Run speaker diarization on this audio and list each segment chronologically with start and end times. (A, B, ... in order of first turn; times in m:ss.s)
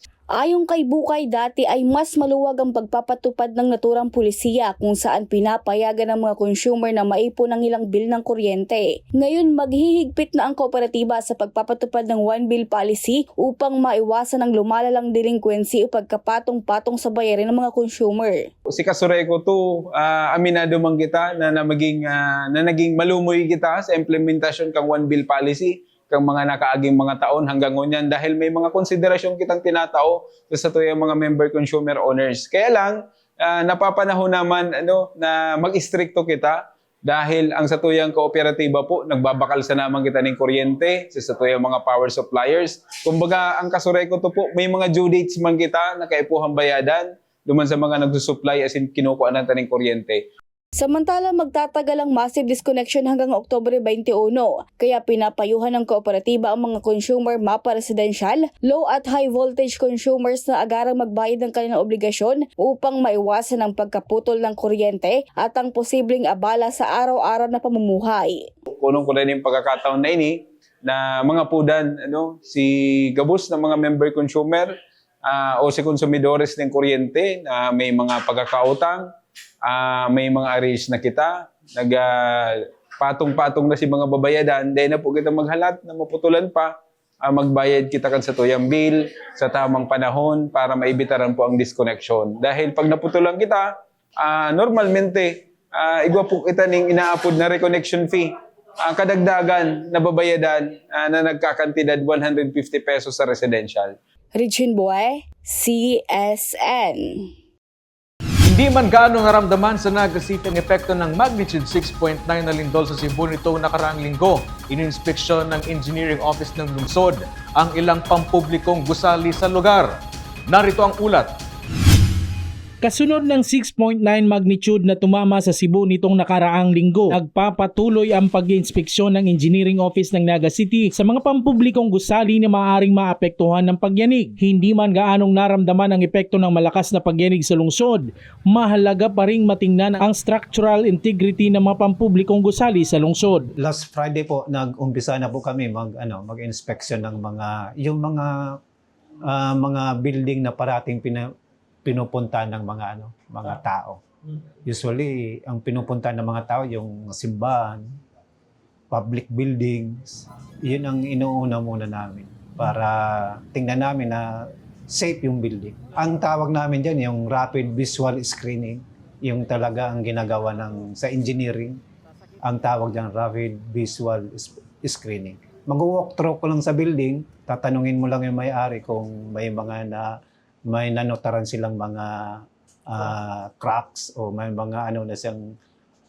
0:00.4-0:18.4 A
0:18.7-0:50.2 B
0:50.8-1:08.4 A
1:08.7-1:14.7 B
1:15.2-1:19.0 B
1:19.6-1:26.7 B
1:27.2-1:33.7 B
1:34.2-1:38.3 B
1:38.8-1:44.0 B
1:44.3-1:47.3 A
1:48.4-1:59.9 C
2:00.5-2:01.3 C
2:02.8-2:23.5 D
2:23.6-2:28.6 E
2:29.3-2:31.3 E
2:31.8-2:34.0 E
2:34.6-2:37.8 E
2:38.9-2:51.8 E
2:52.4-3:05.6 E